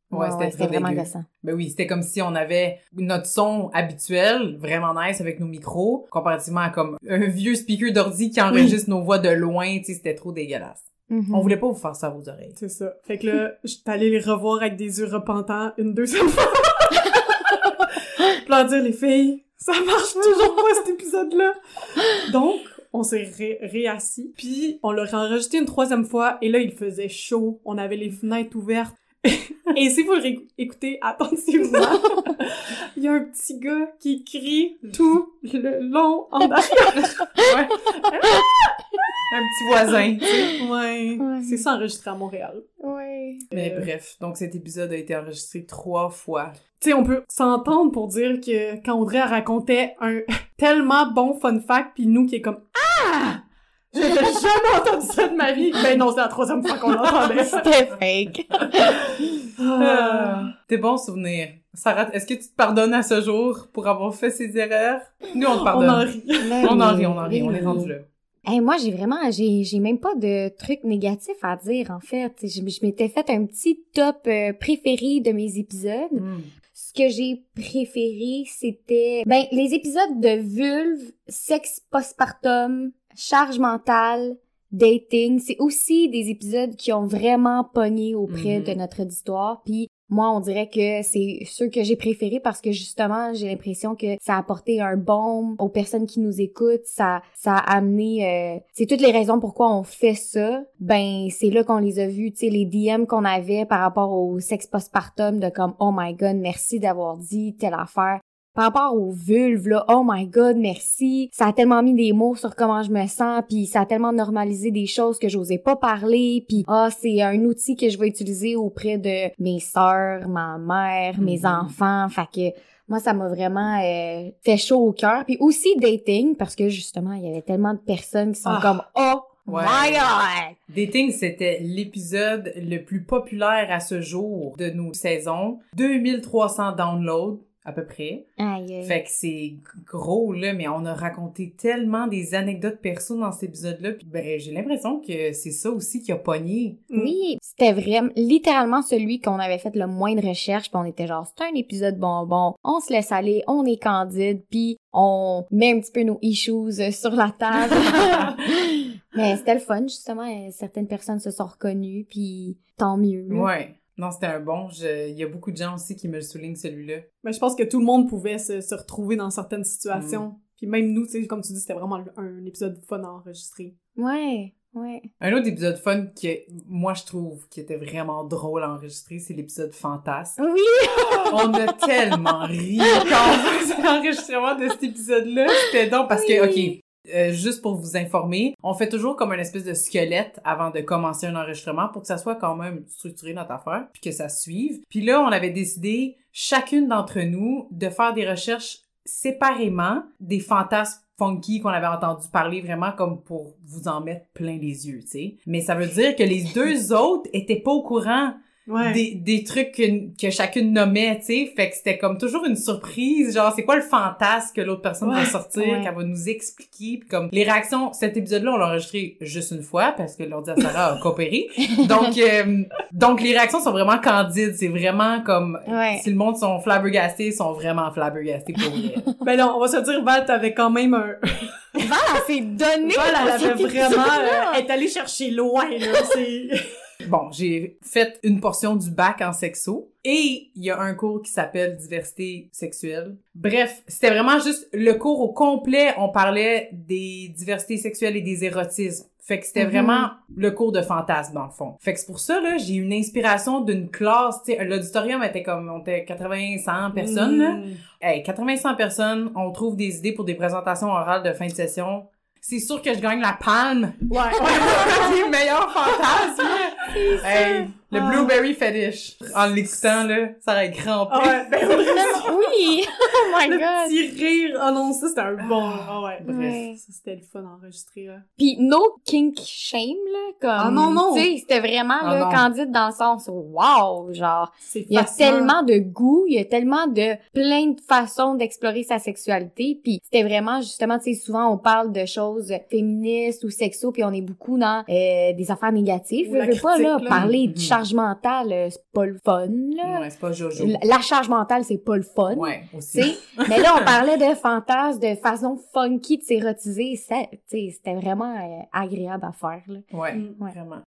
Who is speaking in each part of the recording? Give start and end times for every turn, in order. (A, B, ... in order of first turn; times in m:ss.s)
0:00.1-0:01.2 A
0:00.1-0:12.5 B
0:08.5-0:08.8 C
0:11.1-0:11.5 A
0:12.6-0:37.3 C
0:37.4-0:38.3 B
0:39.3-0:40.5 B
0:40.4-0:42.6 C
0:41.2-0:41.6 A
0:42.8-0:43.4 A
0:43.5-0:43.9 C
0:43.5-0:46.6 B
0:46.8-0:57.7 C
0:57.2-0:59.1 A
0:59.6-1:00.5 C
0:59.8-1:06.1 B
1:05.4-1:06.8 C
1:06.4-1:07.9 A
1:06.6-1:08.0 B
1:08.4-2:10.6 A
1:16.2-1:16.5 B
1:28.3-1:28.8 B
2:01.2-2:01.7 B
2:08.4-2:08.7 C
2:09.5-2:10.1 B
2:10.7-2:18.2 B
2:18.4-2:19.0 A
2:18.8-2:26.8 B
2:26.9-2:43.5 A
2:43.3-2:47.0 B
2:47.2-2:53.7 C
2:49.9-2:50.2 B
2:54.0-2:55.1 A
2:55.2-3:00.4 B
3:00.4-3:01.8 A
3:01.3-3:49.0 B
3:06.1-3:06.8 A
3:28.7-3:29.0 C
3:35.0-3:35.3 C
3:35.6-3:35.9 A
3:41.8-3:42.1 A
3:45.6-3:46.1 A
3:49.2-3:51.8 C
3:51.8-3:54.6 A
3:52.8-3:56.6 C
3:57.0-4:32.3 B
4:09.6-4:10.1 A
4:16.9-4:17.8 C
4:24.1-4:25.2 C
4:26.9-4:27.7 A
4:27.9-4:28.4 C
4:31.1-4:32.5 C
4:32.0-4:34.0 A
4:33.4-4:38.2 C
4:35.4-4:36.6 B
4:36.2-4:36.8 A
4:38.4-5:00.0 A
4:40.6-4:41.3 C
4:42.0-4:42.4 B
4:44.6-4:45.6 C
4:56.2-4:57.3 C
4:57.1-4:57.8 B
4:59.8-5:00.8 B
5:00.6-5:09.9 A
5:02.3-5:03.8 B
5:09.9-5:10.8 B
5:10.1-5:10.4 C